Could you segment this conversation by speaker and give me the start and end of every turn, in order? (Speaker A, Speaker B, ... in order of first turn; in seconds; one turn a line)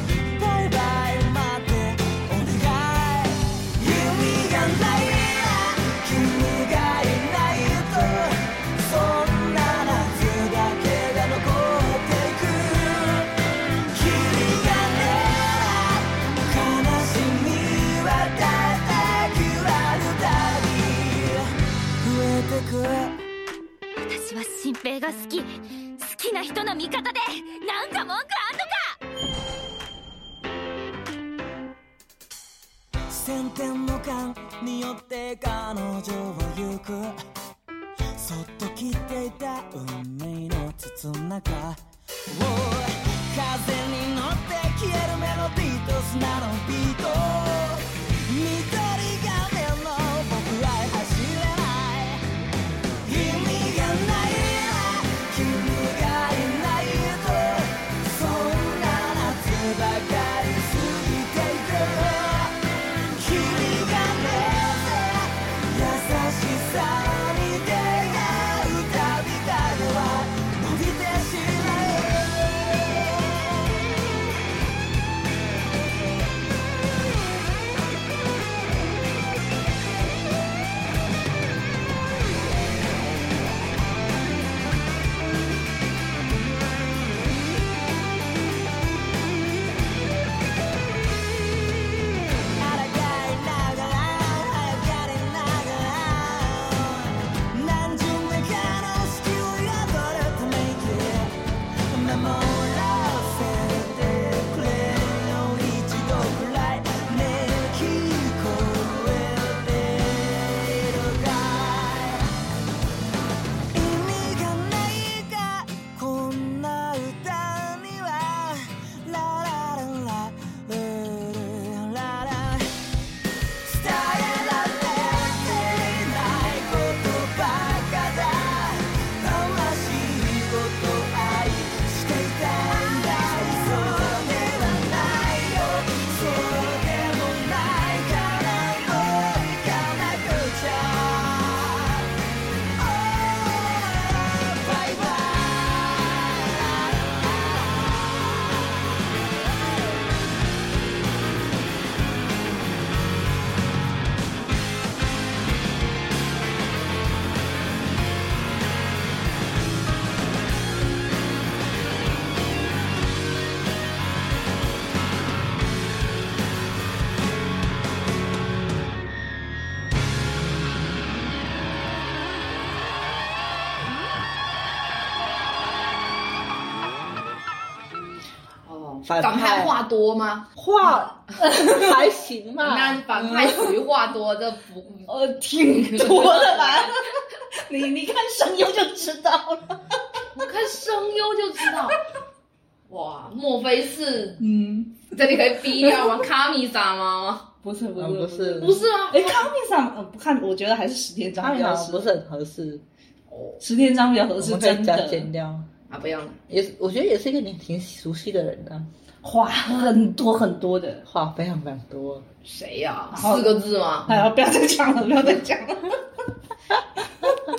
Speaker A: 0.3-23.2
Speaker B: 24.0-29.0
Speaker A: 33.1-37.2
Speaker A: 38.1-52.3
Speaker A: 53.0-62.6
Speaker A: 63.1-74.2
Speaker A: 92.4-101.3
Speaker A: 101.9-112.3
Speaker A: 113.7-122.7
Speaker A: 123.6-142.1
Speaker A: 142.8-149.0
Speaker C: 178.7-180.5
Speaker D: 179.1-179.8
Speaker D: 180.6-183.1
Speaker E: 180.8-182.0
Speaker C: 182.6-185.1
Speaker E: 183.2-183.7
Speaker E: 185.1-190.0
Speaker C: 185.7-187.1
Speaker C: 190.3-192.0
Speaker C: 192.9-194.4
Speaker E: 194.4-195.1
Speaker C: 195.0-197.5
Speaker E: 195.8-196.1
Speaker E: 197.6-202.1
Speaker D: 198.0-198.8
Speaker C: 198.6-199.5
Speaker D: 201.4-202.8
Speaker C: 203.3-203.6
Speaker E: 203.6-205.3
Speaker D: 204.4-205.7
Speaker C: 205.9-206.4
Speaker D: 206.5-208.9
Speaker E: 209.2-211.0
Speaker D: 211.1-212.3
Speaker C: 212.4-214.1
Speaker E: 213.1-216.0